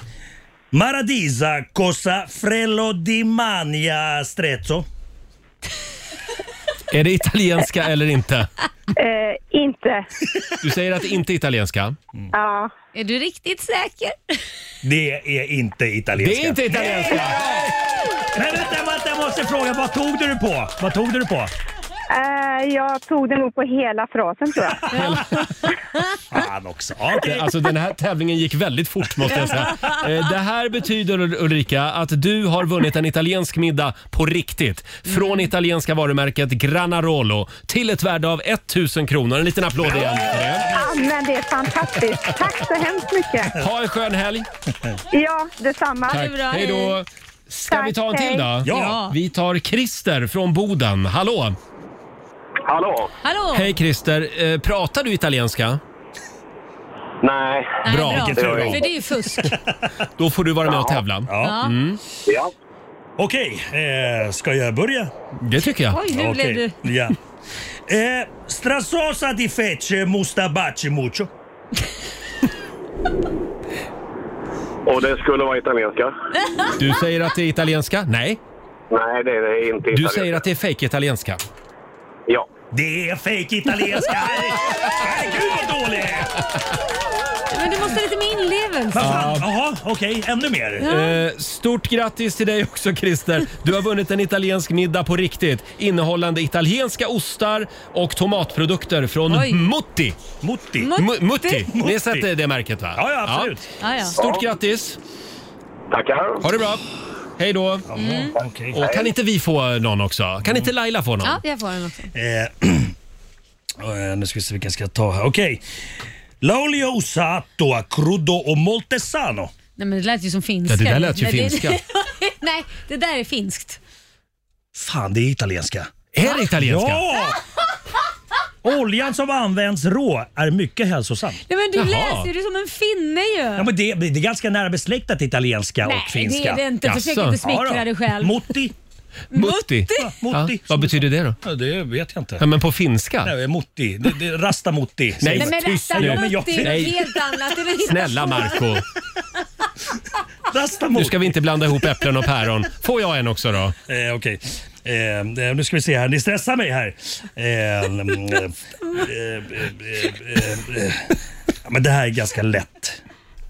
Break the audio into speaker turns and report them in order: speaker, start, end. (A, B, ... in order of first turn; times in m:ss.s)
0:00.7-0:04.9 A
0:06.9-0:08.5 B
0:09.0-0:10.0 C
0:10.6-0:12.0 B
0:12.3-0:12.7 C
0:13.0-0:14.4 D
0:14.8-0:17.6 A
0:16.2-0:17.6 B
0:18.3-0:21.5 A
0:22.1-0:24.9 C
0:24.9-0:25.4 B
0:25.0-0:25.2 D
0:26.3-0:27.5 A
0:27.2-0:40.8 B
0:35.1-0:35.4 D
0:39.8-0:40.7 A
0:40.7-0:43.5 C
0:43.6-0:44.5 B
0:45.2-0:46.3 C
0:46.1-0:51.6 B
0:46.1-0:47.0 D
0:47.7-0:48.5 C
0:48.6-0:49.0 A
0:48.6-0:49.2 D
0:52.7-0:53.1 E
0:53.2-0:53.7 D
0:53.5-0:55.8 B
0:57.2-0:58.8 E
0:57.8-0:59.5 D
0:57.9-0:58.8 B
0:58.2-0:58.7 A
0:59.4-0:59.8 A
1:00.2-1:02.0 B
1:00.6-1:01.0 E
1:01.3-1:01.6 A
1:01.4-1:01.8 D
1:03.2-1:05.1 A
1:05.4-1:06.0 B
1:05.9-1:06.8 D
1:06.1-1:07.2 A
1:07.9-1:11.3 A
1:14.9-1:16.1 E
1:16.5-1:16.7 D
1:16.7-1:18.4 B
1:18.9-1:20.4 E
1:19.9-1:21.4 B
1:22.7-1:26.4 A
1:27.5-1:29.3 D
1:28.9-1:30.9 A
1:29.0-1:29.5 B
1:30.8-1:31.2 D
1:30.8-1:40.2 B
1:39.3-1:39.7 D
1:40.4-1:40.9 A
1:40.8-1:41.7 D
1:41.0-1:43.5 B
1:41.7-1:42.3 A
1:43.0-1:43.7 A
1:43.8-1:44.2 D
1:44.2-1:45.0 B
1:44.2-1:44.4 E
1:45.9-1:46.4 E
1:46.4-1:46.8 B
1:47.4-1:47.9 B
1:47.9-1:48.8 A
1:48.0-1:48.4 D
1:48.8-1:51.4 B
1:48.8-1:49.1 E
1:50.4-1:50.7 A
1:51.2-1:52.1 D
1:52.1-1:52.9 A
1:53.8-1:55.6 A
1:56.4-1:59.5 A
1:59.8-2:03.8 D
2:00.7-2:01.8 B
2:04.7-2:07.4 A
2:06.1-2:07.0 B
2:08.6-2:11.4 A
2:11.5-2:13.7 D
2:11.8-2:12.3 B
2:13.6-2:16.6 A
2:15.8-2:18.5 D
2:16.8-2:17.4 B
2:17.4-2:18.7 A
2:19.3-2:20.2 D
2:19.3-2:21.4 B
2:20.0-2:22.4 A
2:22.4-2:23.3 B
2:23.2-2:27.0 A
2:25.2-2:27.1 B
2:25.3-2:28.8 D
2:27.8-2:28.8 B
2:30.5-2:31.4 A
2:31.0-2:33.8 B
2:33.9-2:43.0 A